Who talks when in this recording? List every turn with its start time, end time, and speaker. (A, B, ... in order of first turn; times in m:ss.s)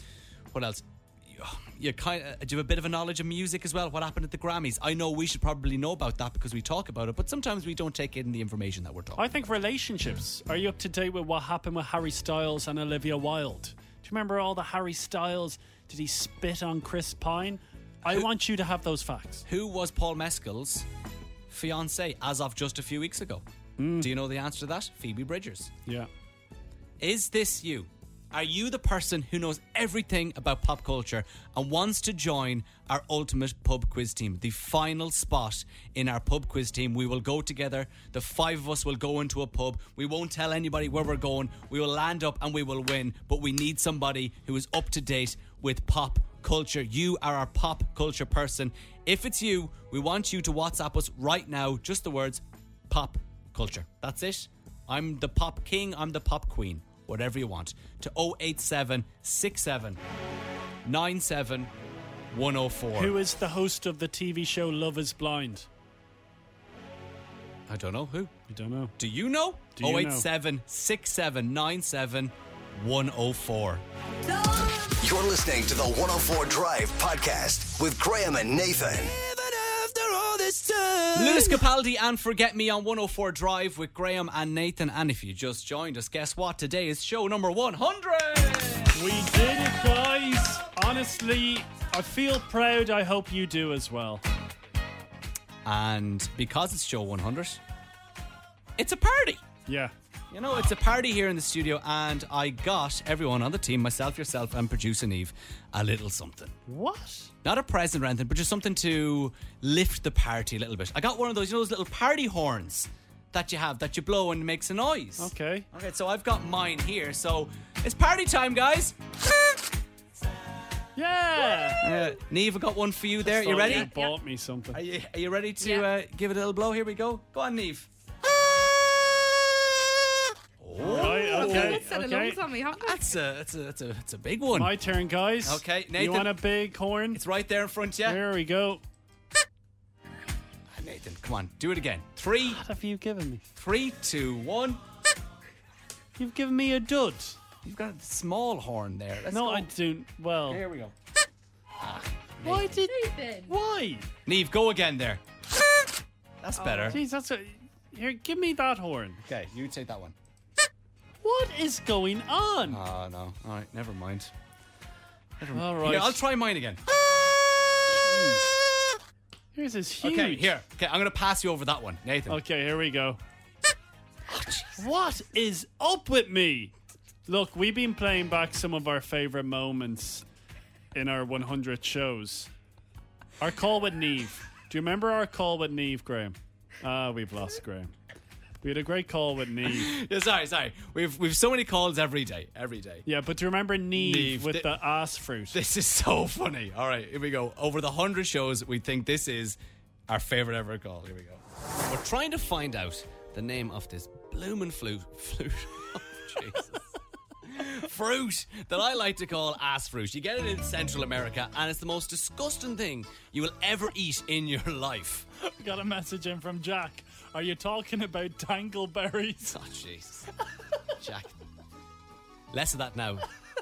0:00.5-0:09.2 A
0:09.2-0:19.4 B
0:19.4-0:20.9 A
0:21.5-0:23.4 A
0:23.8-0:24.1 B
0:24.0-0:25.7 A
0:27.0-1:00.0 A
1:00.8-1:01.7 A
1:02.3-1:03.2 A
1:03.0-1:05.7 B
1:07.7-1:08.3 A
1:08.5-1:08.9 B
1:09.0-1:13.8 A
1:09.7-1:10.3 B
1:15.0-1:19.1 C
1:20.2-1:21.0 C
1:21.1-1:29.0 A
1:28.9-1:34.2 B
1:35.6-1:37.6 A
1:38.8-1:39.4 A
1:39.7-1:39.9 B
1:40.3-1:46.5 A
1:46.7-1:47.3 B
1:47.4-1:59.0 A
1:55.2-1:55.7 B
2:01.0-2:01.9 B
2:01.8-2:03.9 A
2:03.2-2:04.8 B
2:03.5-2:04.1 D
2:04.7-2:07.9 A
2:05.6-2:05.9 D
2:10.6-2:11.9 A
2:10.8-2:12.4 B
2:10.9-2:13.0 D
2:12.7-2:14.8 A
2:14.5-2:17.2 B
2:15.4-2:16.4 A
2:17.1-2:18.2 A
2:18.0-2:18.8 B
2:20.8-2:22.6 A
2:22.5-2:23.4 B
2:23.6-2:24.8 A
2:26.2-2:27.4 B
2:27.6-2:29.7 A
2:29.3-2:30.6 B
2:30.5-2:30.9 A
2:31.8-2:32.8 A
2:32.4-2:34.1 B
2:32.8-2:33.5 D
2:34.2-2:35.2 A
2:36.4-2:37.0 A
2:36.6-2:37.0 D
2:36.9-2:39.2 B
2:39.2-2:40.1 A
2:41.2-2:42.8 B
2:42.7-2:44.3 A
2:45.4-2:46.8 A
2:45.5-2:46.2 B
2:47.9-2:48.5 B
2:49.5-2:50.5 B
2:50.0-2:52.4 A
2:52.3-2:53.2 B
2:54.3-2:54.8 A
2:54.8-2:56.7 B
2:57.3-3:00.2 B
3:00.9-3:02.5 B
3:03.4-3:07.9 B
3:08.6-3:09.9 B
3:09.6-3:13.0 A
3:13.0-3:15.6 B
3:13.9-3:14.8 A
3:15.5-3:35.2 A
3:35.4-3:39.6 B
3:39.5-3:40.3 A
3:41.0-3:41.3 A
3:42.5-3:43.3 A